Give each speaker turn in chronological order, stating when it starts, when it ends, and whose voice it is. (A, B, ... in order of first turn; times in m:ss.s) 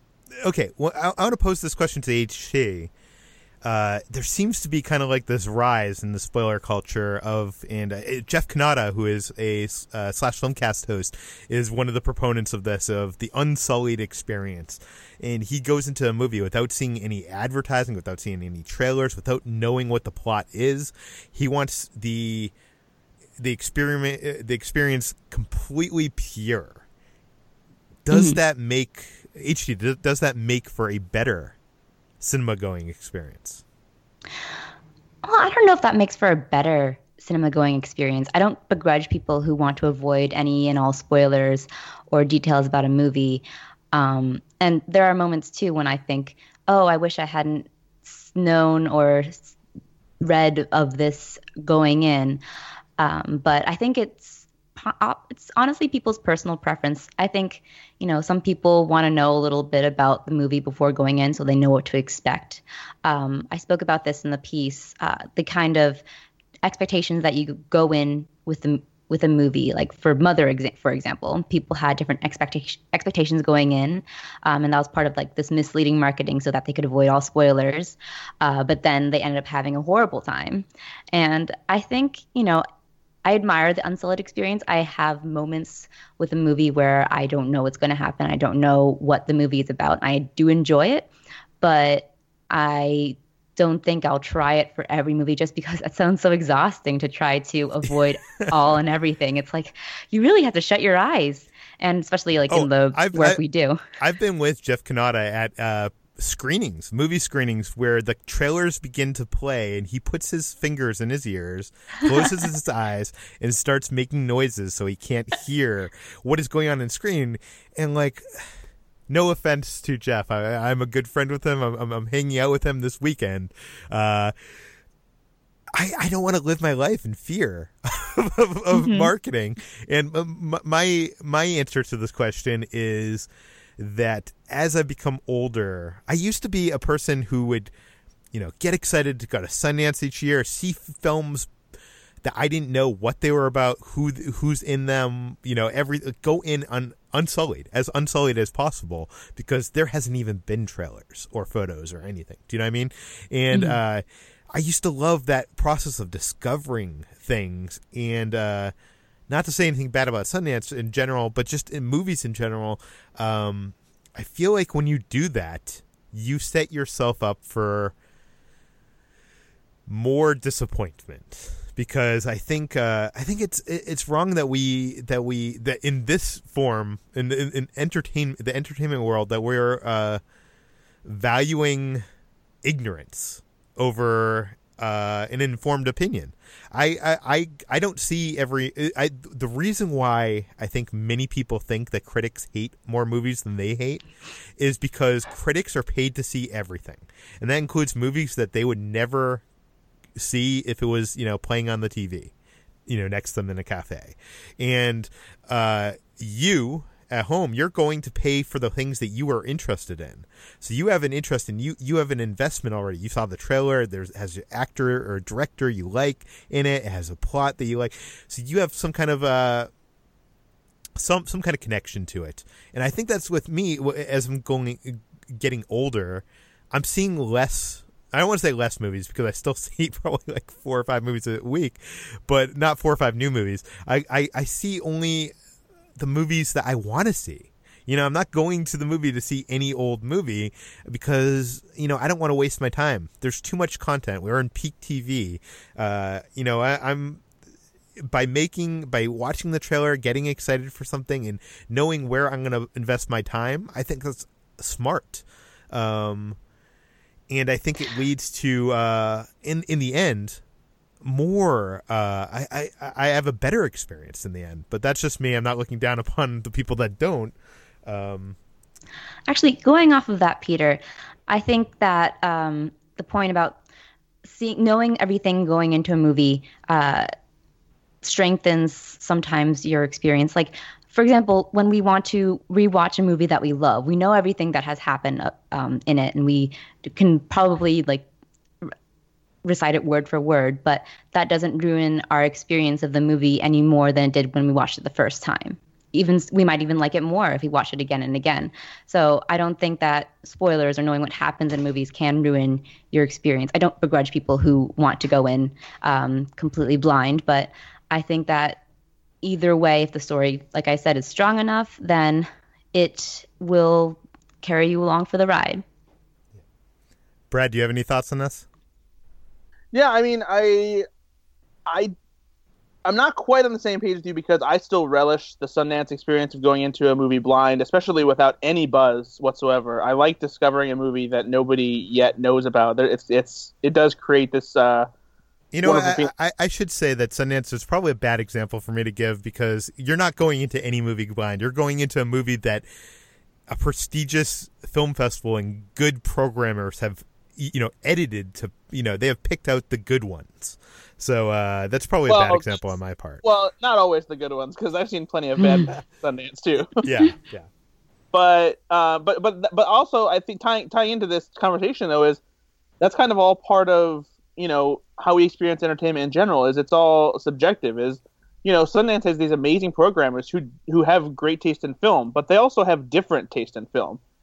0:00.4-0:02.9 A
0:03.6-0:22.5 A
0:23.4-0:26.8 A
0:28.1-0:31.6 A
0:28.1-0:28.4 B
0:32.2-0:33.6 A
0:35.2-0:49.6 B
0:50.2-0:52.4 B
0:53.0-1:06.0 B
1:06.6-1:22.6 B
1:23.2-1:31.1 B
1:31.6-1:43.8 B
1:42.5-1:43.4 A
1:44.0-1:58.2 A
1:59.1-2:04.3 A
2:05.7-2:17.7 A
2:08.7-2:09.1 B
2:18.3-2:21.5 A
2:22.2-2:38.7 A
2:33.5-2:33.8 B
2:39.3-2:47.9 A
2:49.9-3:00.2 A
3:01.0-3:02.0 A
3:02.6-3:14.0 A
3:14.6-3:19.4 A
3:20.2-3:22.3 A
3:22.9-3:39.7 A
3:41.0-3:55.3 A
3:56.0-4:07.2 A
4:08.0-4:16.4 A
4:17.3-4:20.4 A
4:21.0-4:28.4 A
4:29.3-4:33.6 B
4:34.2-4:37.1 B
4:38.0-4:48.1 B
4:49.4-5:08.6 B
5:09.2-5:15.6 B
5:17.3-5:18.5 A
5:19.7-5:20.8 C
5:21.7-5:21.9 C
5:22.8-5:34.9 C
5:35.5-5:42.7 A
5:35.6-5:36.1 C
5:43.5-5:53.2 A
5:52.1-5:52.6 C
5:53.2-5:56.8 C
5:55.4-5:55.7 B
5:56.8-5:57.5 A
5:58.1-6:02.2 C
6:02.8-6:14.0 C